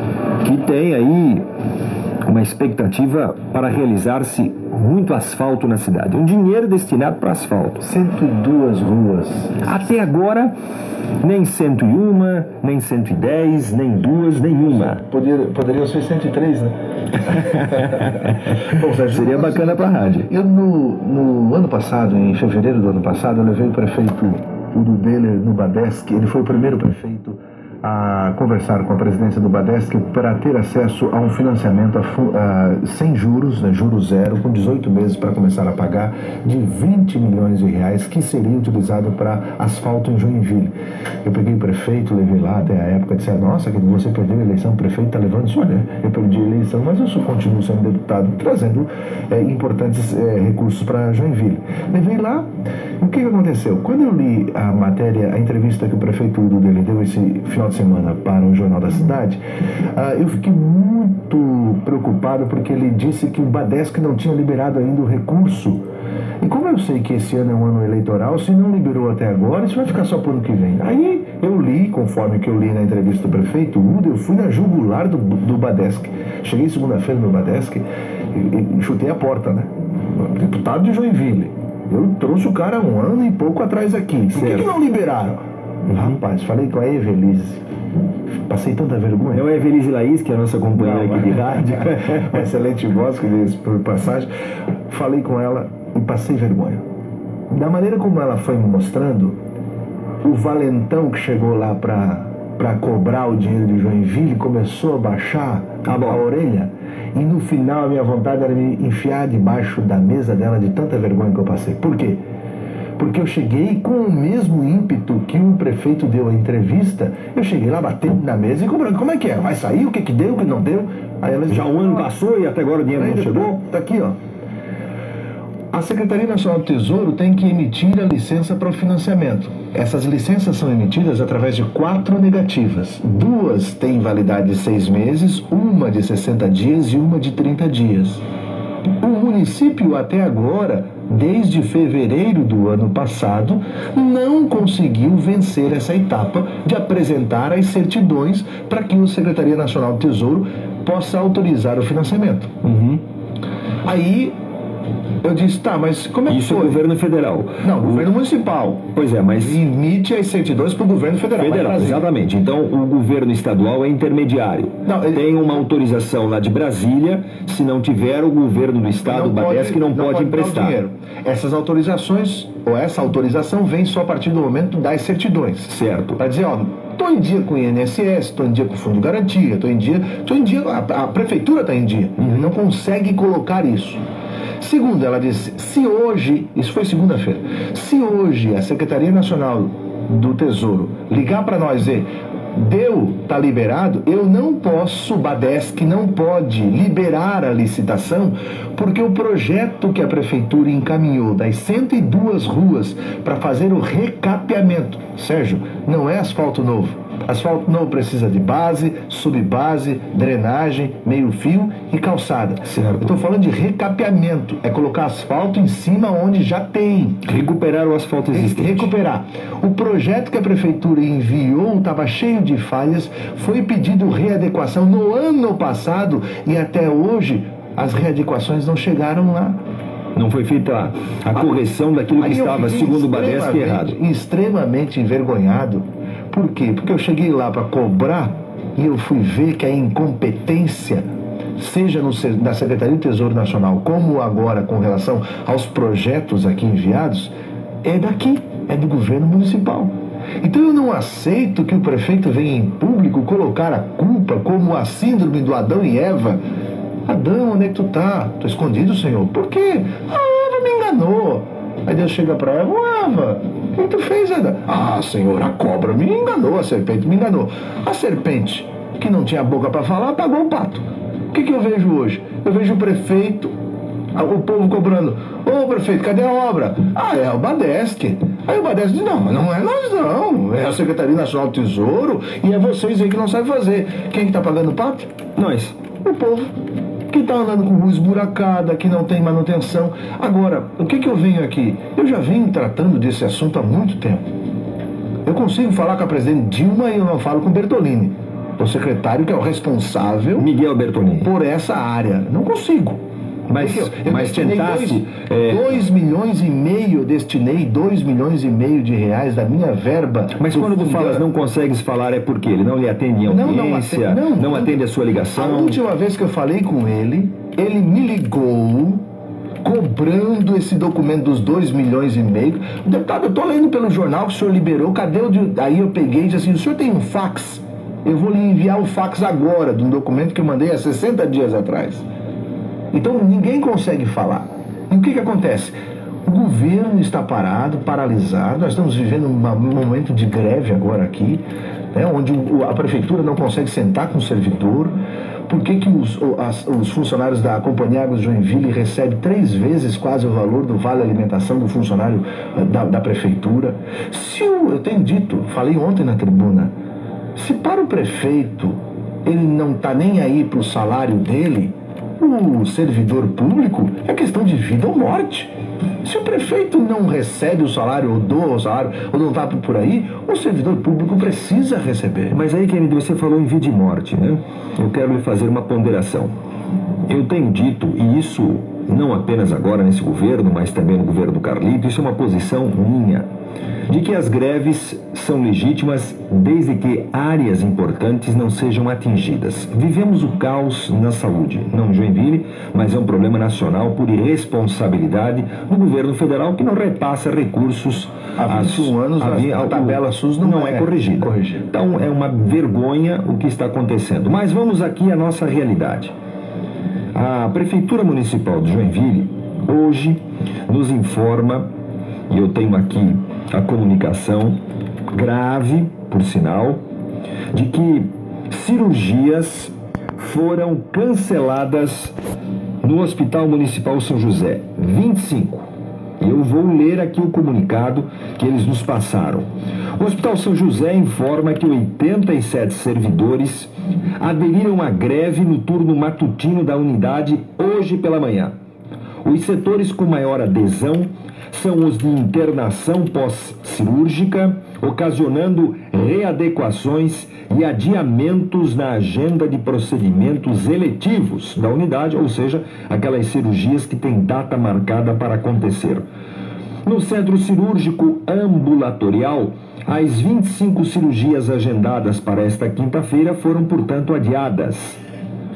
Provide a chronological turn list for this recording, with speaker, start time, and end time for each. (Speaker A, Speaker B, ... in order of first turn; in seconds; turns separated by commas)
Speaker A: 0.4-1.4, Speaker A: 2.2-7.8, Speaker B: 7.8-9.7, Speaker A: 9.6-10.5, Speaker A: 11.2-15.0, Speaker B: 14.7-40.7, Speaker A: 17.3-20.3, Speaker B: 41.2-52.5, Speaker B: 53.0-59.4, Speaker B: 60.0-65.8, Speaker B: 66.4-87.6, Speaker A: 84.3-84.7, Speaker A: 85.9-86.2, Speaker B: 88.5-89.5, Speaker A: 89.3-92.5, Speaker B: 90.8-94.3, Speaker B: 94.9-96.8, Speaker B: 97.5-99.4, Speaker B: 100.2-112.2, Speaker A: 105.8-106.2, Speaker B: 113.0-122.1, Speaker A: 121.5-123.6, Speaker B: 122.9-124.2, Speaker B: 125.7-138.2, Speaker B: 139.0-152.8, Speaker A: 152.7-153.0, Speaker B: 153.8-154.3, Speaker B: 155.2-156.8, Speaker A: 156.3-158.1, Speaker B: 157.6-162.1, Speaker A: 158.9-159.6, Speaker A: 161.4-170.8, Speaker B: 164.8-165.3, Speaker B: 169.0-184.0, Speaker A: 175.7-176.2, Speaker A: 182.2-182.5, Speaker B: 184.6-217.2, Speaker A: 212.7-213.1, Speaker A: 217.2-218.9, Speaker B: 218.3-229.6, Speaker A: 230.2-234.0, Speaker B: 232.2-241.1, Speaker B: 241.6-247.3, Speaker B: 247.8-256.4, Speaker B: 257.1-273.5, Speaker B: 274.1-285.1, Speaker A: 285.4-285.8, Speaker B: 286.0-286.5, Speaker B: 287.1-294.2, Speaker B: 295.3-300.5, Speaker A: 300.4-301.3, Speaker B: 301.2-303.0, Speaker A: 303.5-305.8, Speaker B: 303.6-311.3, Speaker A: 310.4-315.8, Speaker B: 313.3-314.9, Speaker B: 315.4-319.0, Speaker B: 319.6-332.1, Speaker B: 332.9-345.0, Speaker B: 345.5-356.7, Speaker B: 357.4-365.5, Speaker B: 366.0-372.4, Speaker A: 372.3-376.3, Speaker A: 377.1-383.3, Speaker A: 383.9-406.1, Speaker B: 398.4-401.7, Speaker A: 407.1-411.7, Speaker A: 412.3-414.6, Speaker A: 415.1-416.8, Speaker A: 417.5-422.1, Speaker A: 422.8-425.7, Speaker A: 426.2-438.5, Speaker A: 439.2-456.0, Speaker A: 456.9-465.0